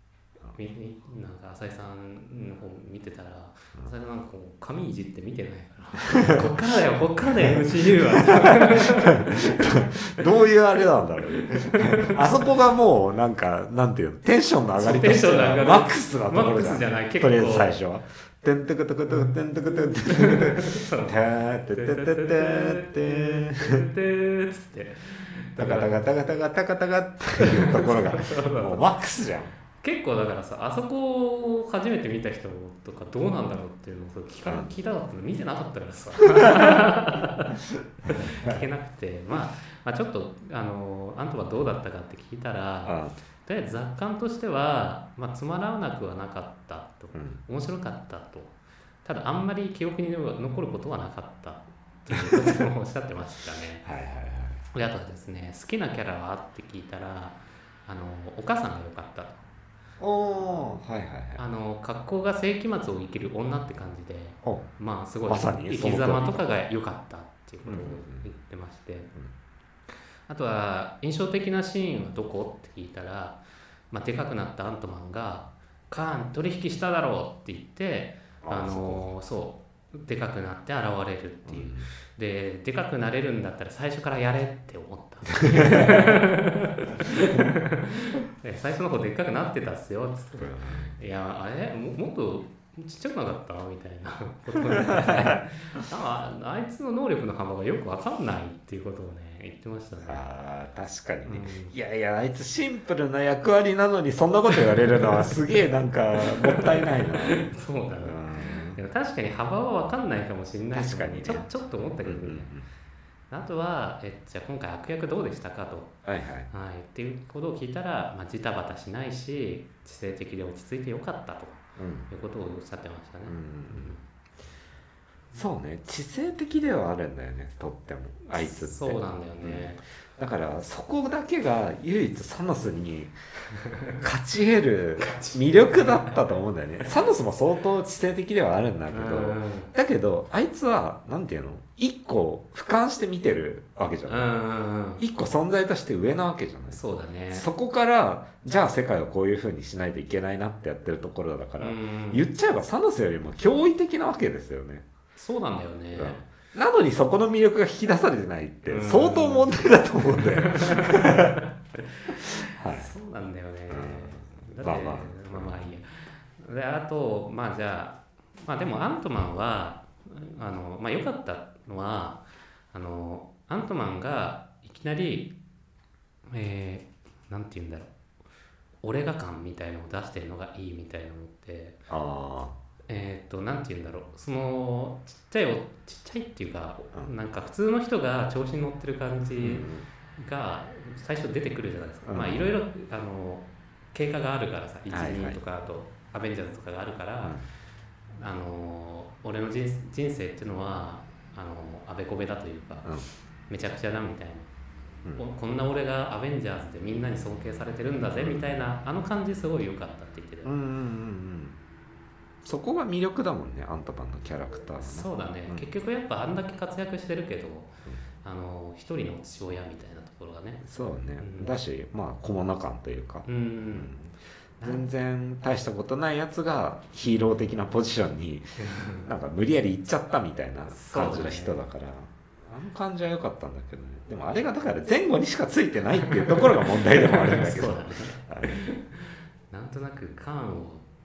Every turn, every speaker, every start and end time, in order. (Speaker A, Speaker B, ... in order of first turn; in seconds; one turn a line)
Speaker A: 0.5-10.3
Speaker B: 6.1-6.5
Speaker B: 7.2-23.8
Speaker A: 11.3-12.5
Speaker A: 14.7-17.8
Speaker A: 19.1-21.2
Speaker A: 21.7-26.1
Speaker B: 25.6-29.5
Speaker A: 27.4-28.9
Speaker A: 29.8-53.8
Speaker B: 34.5-34.7
Speaker B: 36.4-36.8
Speaker B: 38.0-38.6
Speaker B: 42.9-43.1
Speaker B: 47.1-47.4
Speaker B: 53.8-54.6
Speaker A: 54.7-59.5
Speaker B: 60.0-61.4
Speaker A: 61.4-69.1
Speaker B: 64.4-64.7
Speaker B: 65.3-66.4
Speaker B: 67.7-68.3
Speaker A: 70.3-100.2
Speaker B: 78.4-79.1
Speaker B: 81.5-81.9
Speaker B: 85.5-86.2
Speaker B: 90.4-91.0
Speaker B: 94.5-95.8
Speaker B: 100.0-107.5
Speaker A: 101.3-101.7
Speaker A: 104.5-105.3
Speaker A: 106.2-108.2
Speaker B: 108.0-108.8
Speaker A: 108.8-112.5
Speaker B: 110.7-112.7
Speaker A: 113.3-115.9
Speaker B: 116.0-116.5
Speaker A: 116.5-124.0
Speaker B: 121.8-122.1
Speaker B: 123.3-124.0
Speaker B: 125.3-133.2
Speaker A: 128.3-129.8
Speaker A: 133.7-133.9
Speaker B: 134.0-144.3
Speaker A: 135.0-136.2
Speaker A: 138.9-139.7
Speaker A: 144.1-145.0
Speaker B: 145.0-154.9
Speaker A: 146.7-147.5
Speaker A: 151.6-152.2
Speaker A: 155.2-156.3
Speaker B: 155.9-161.4
Speaker A: 158.7-159.5
Speaker A: 160.1-161.5
Speaker B: 162.1-162.9
Speaker A: 162.7-175.3
Speaker B: 163.7-165.6
Speaker A: 176.3-177.9
Speaker A: 178.8-181.8
Speaker B: 181.9-182.6
Speaker A: 182.9-197.4
Speaker B: 189.4-189.9
Speaker B: 192.1-192.5
Speaker B: 194.9-195.4
Speaker A: 198.2-202.9
Speaker A: 203.5-204.5
Speaker A: 205.2-210.5
Speaker B: 208.2-208.6
Speaker B: 210.4-211.6
Speaker B: 212.4-215.7
Speaker A: 214.8-221.6
Speaker B: 220.6-228.5
Speaker A: 223.3-224.0
Speaker A: 224.6-224.9
Speaker A: 228.6-229.1
Speaker B: 229.0-238.6
Speaker A: 230.7-231.6
Speaker A: 236.0-240.9